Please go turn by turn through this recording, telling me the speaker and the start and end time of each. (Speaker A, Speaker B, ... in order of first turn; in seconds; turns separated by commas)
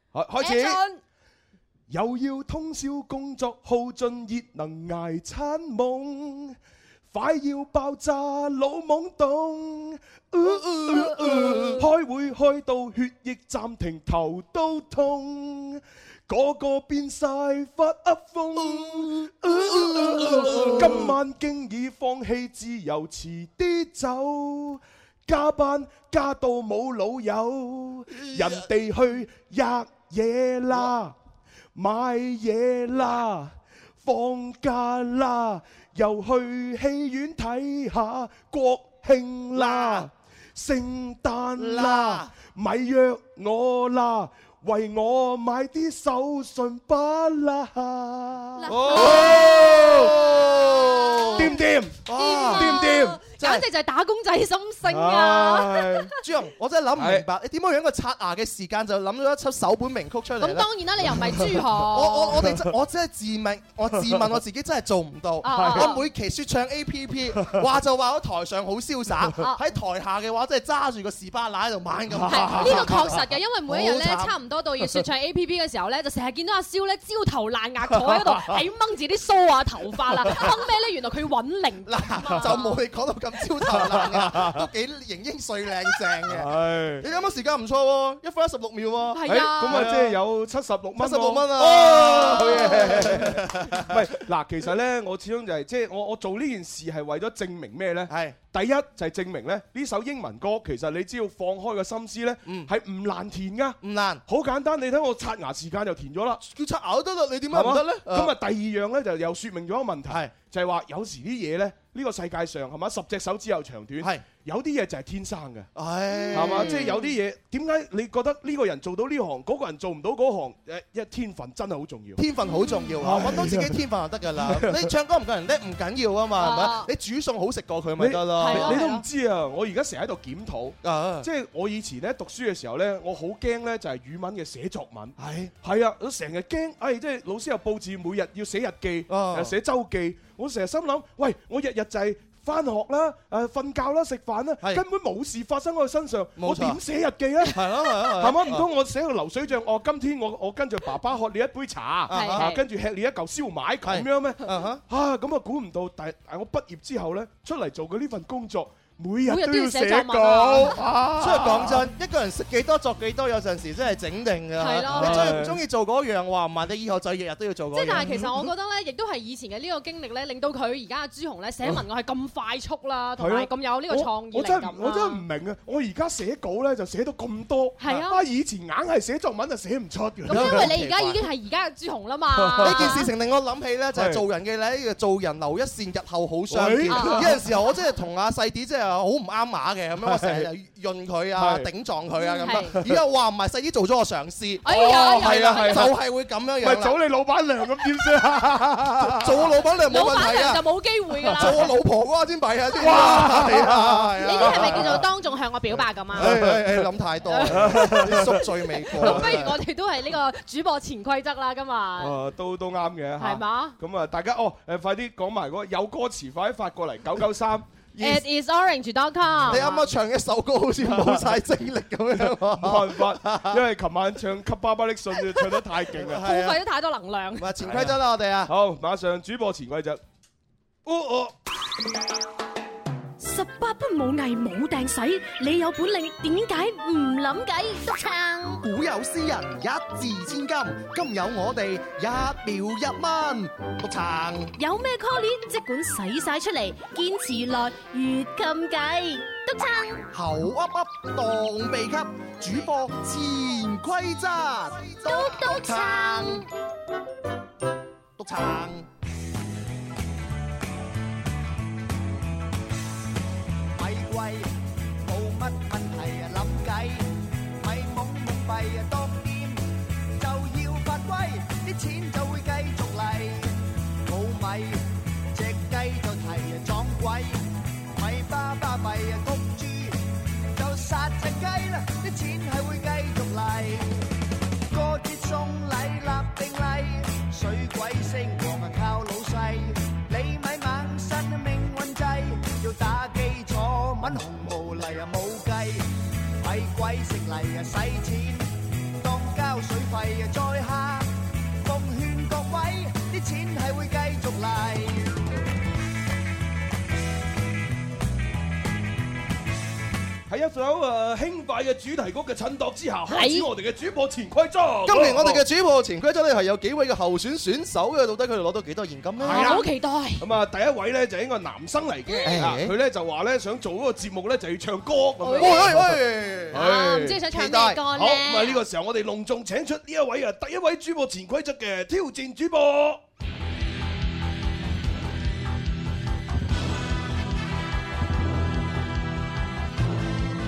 Speaker A: 0.1-0.8, Speaker B: 0.4-1.0, Speaker A: 1.9-6.5, Speaker A: 7.1-31.1, Speaker C: 10.4-11.8, Speaker C: 18.6-21.1, Speaker C: 28.1-28.6, Speaker A: 31.8-50.4, Speaker C: 39.5-40.1, Speaker C: 41.6-42.3, Speaker C: 48.4-53.7, Speaker B: 48.7-49.7, Speaker A: 51.3-53.3, Speaker B: 52.1-56.1, Speaker A: 54.8-56.1, Speaker C: 56.2-60.7, Speaker A: 57.0-57.2, Speaker B: 60.4-62.5, Speaker A: 61.2-61.6, Speaker C: 61.9-74.3, Speaker A: 62.4-62.7, Speaker B: 65.4-66.0, Speaker A: 65.5-66.0, Speaker A: 72.1-73.2, Speaker B: 72.2-82.8, Speaker C: 81.9-90.2, Speaker A: 83.7-84.6, Speaker A: 86.3-87.1, Speaker B: 89.1-89.9, Speaker A: 89.2-106.4, Speaker C: 91.0-94.1, Speaker B: 92.3-92.8, Speaker C: 98.1-98.4, Speaker C: 102.4-102.7, Speaker C: 103.8-104.2, Speaker C: 106.4-108.3, Speaker A: 107.5-115.7, Speaker C: 110.1-110.3, Speaker C: 115.8-117.1, Speaker A: 116.3-122.2, Speaker B: 116.4-116.8, Speaker C: 122.2-128.8, Speaker A: 123.0-123.8, Speaker A: 124.4-124.9, Speaker B: 126.4-126.9, Speaker A: 128.0-161.9, Speaker B: 128.3-129.0, Speaker C: 130.8-131.3, Speaker C: 135.2-135.5, Speaker C: 139.1-139.5, Speaker C: 146.4-146.8, Speaker C: 147.4-148.7, Speaker C: 152.1-152.5, Speaker B: 152.1-152.6, Speaker C: 153.8-154.8, Speaker B: 159.3-160.8, Speaker C: 161.2-168.3, Speaker B: 164.6-165.4, Speaker A: 164.8-165.6, Speaker B: 167.7-175.2, Speaker A: 173.2-180.8, Speaker B: 177.8-178.2, Speaker B: 180.2-183.1, Speaker C: 180.3-181.3, Speaker A: 182.3-183.0, Speaker C: 182.6-196.9, Speaker A: 183.9-184.2, Speaker A: 186.5-187.4, Speaker B: 186.9-187.4, Speaker A: 190.0-190.5, Speaker A: 191.4-191.7, Speaker B: 192.2-192.8, Speaker A: 192.5-193.0, Speaker B: 194.6-195.9, Speaker A: 194.7-195.9, Speaker A: 196.6-199.5, Speaker C: 199.1-200.6, Speaker B: 199.8-201.7, Speaker A: 201.2-201.6, Speaker C: 201.3-205.0, Speaker A: 202.8-205.0, Speaker B: 202.8-203.3, Speaker B: 204.2-206.4, Speaker A: 206.1-209.5, Speaker C: 206.1-209.6, Speaker B: 207.2-208.2, Speaker B: 208.8-212.2, Speaker A: 212.0-217.9, Speaker B: 213.2-213.8, Speaker B: 218.0-219.9, Speaker A: 219.4-219.6, Speaker C: 219.5-223.6, Speaker A: 220.8-221.3, Speaker A: 222.2-226.3, Speaker C: 226.1-226.6, Speaker B: 226.1-227.5, Speaker C: 227.4-228.5, Speaker A: 227.7-230.0, Speaker A: 230.8-231.3, Speaker D: 233.2-238.6, Speaker C: 238.6-244.5, Speaker D: 244.6-250.0, Speaker C: 250.1-256.4, Speaker D: 255.0-256.1, Speaker C: 258.2-258.9, Speaker E: 263.8-280.0, Speaker E: 280.5-284.0, Speaker E: 284.7-295.9, Speaker E: 296.4-301.1, Speaker E: 301.6-305.2, Speaker A: 310.3-315.4, Speaker B: 313.1-313.5, Speaker C: 314.9-319.6, Speaker A: 319.2-319.7, Speaker B: 319.3-320.2, Speaker A: 320.2-326.0, Speaker B: 322.1-322.4, Speaker C: 322.2-322.7, Speaker B: 325.2-325.8, Speaker C: 325.3-326.6, Speaker A: 326.5-327.2, Speaker B: 326.5-328.6, Speaker C: 327.3-327.8, Speaker A: 327.9-333.0